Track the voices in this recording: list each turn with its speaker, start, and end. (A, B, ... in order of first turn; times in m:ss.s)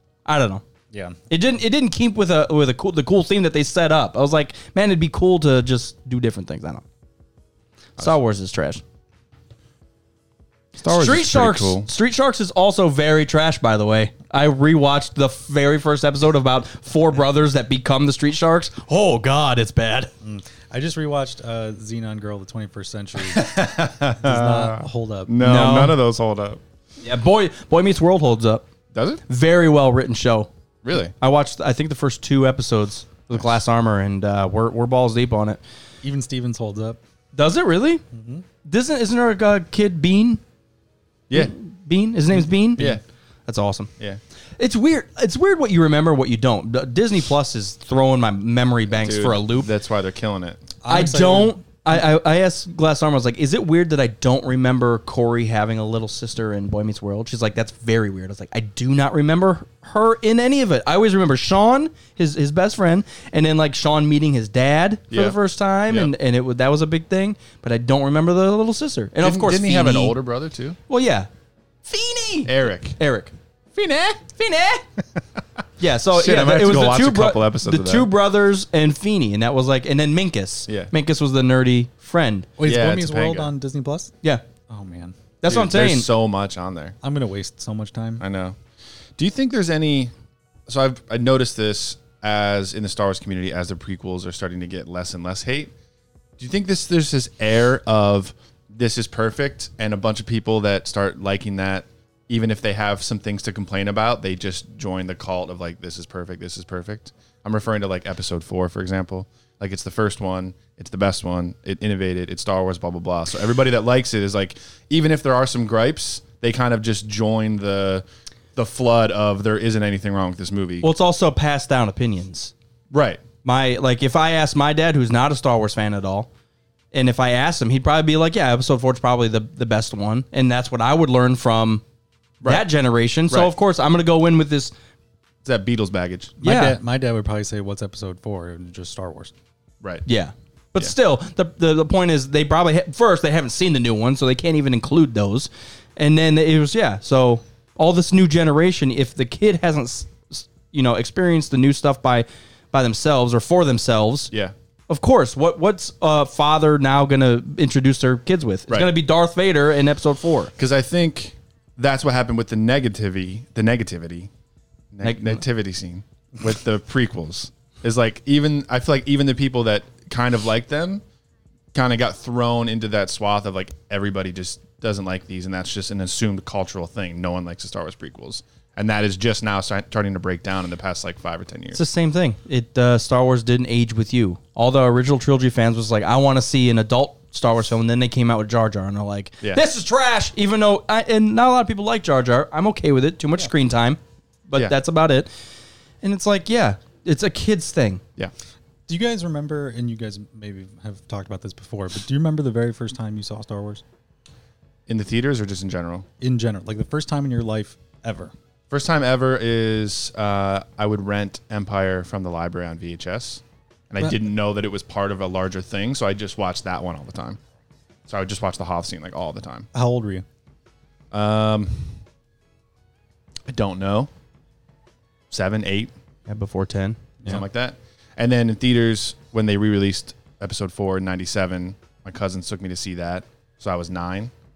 0:00.3-0:00.6 A
0:00.9-0:01.2 B
0:01.3-0:06.8 A
0:08.0-0:08.8 A
0:10.8-0:11.9 C
0:10.9-0:20.1 A
0:20.2-0:25.3 B
0:23.2-0:26.6 C
0:25.4-0:26.0 A
0:27.0-0:28.6 A
0:28.9-0:29.2 C
0:29.3-0:30.5 A
0:30.8-0:31.1 C
0:31.2-0:35.6 A
0:36.0-0:37.0 B
0:37.4-0:38.0 A
0:38.1-0:38.4 B
0:38.6-0:40.4 A
0:41.3-0:42.9 A
0:43.5-0:43.9 A
0:44.6-0:49.7 A
0:48.9-0:50.7 C
0:50.8-0:51.6 B
0:50.9-1:10.2 A
1:05.1-1:05.4 C
1:09.2-1:10.8 C
1:10.9-1:11.3 A
1:11.8-1:13.3 A
1:12.4-1:13.0 C
1:13.7-1:14.3 C
1:14.4-1:14.8 A
1:15.8-1:22.5 A
1:16.1-1:18.1 C
1:20.7-1:20.9 C
1:22.6-1:24.2 B
1:22.6-1:23.5 C
1:24.7-1:25.2 B
1:25.4-1:26.1 A
1:25.4-1:27.0 C
1:27.0-1:28.2 B
1:28.2-1:28.6 C
1:29.2-1:30.1 C
1:30.7-1:35.7 C
1:36.4-1:58.0 C
1:58.6-2:00.9 C
2:00.8-2:02.5 A
2:02.9-2:03.2 C
2:03.4-2:06.3 A
2:06.9-2:11.8 A
2:12.4-2:12.7 C
2:12.4-2:14.7 A
2:15.4-2:16.4 C
2:16.4-2:19.3 B
2:16.4-2:16.8 A
2:20.1-2:34.3 A
2:34.9-2:40.5 A
2:38.7-2:38.9 C
2:40.6-2:44.3 C
2:44.9-2:51.0 C
2:45.0-2:45.4 A
2:51.7-3:01.8 C
3:01.7-3:15.3 A
3:16.0-3:18.0 A
3:18.9-3:23.8 B
3:24.9-3:26.1 C
3:26.2-3:28.3 B
3:28.7-3:37.4 C
3:38.1-3:39.7 C
3:39.7-3:40.2 B
3:41.1-3:42.0 C
3:43.5-3:44.1 C
3:45.3-3:45.9 C
3:46.3-3:47.0 A
3:47.2-3:54.3 C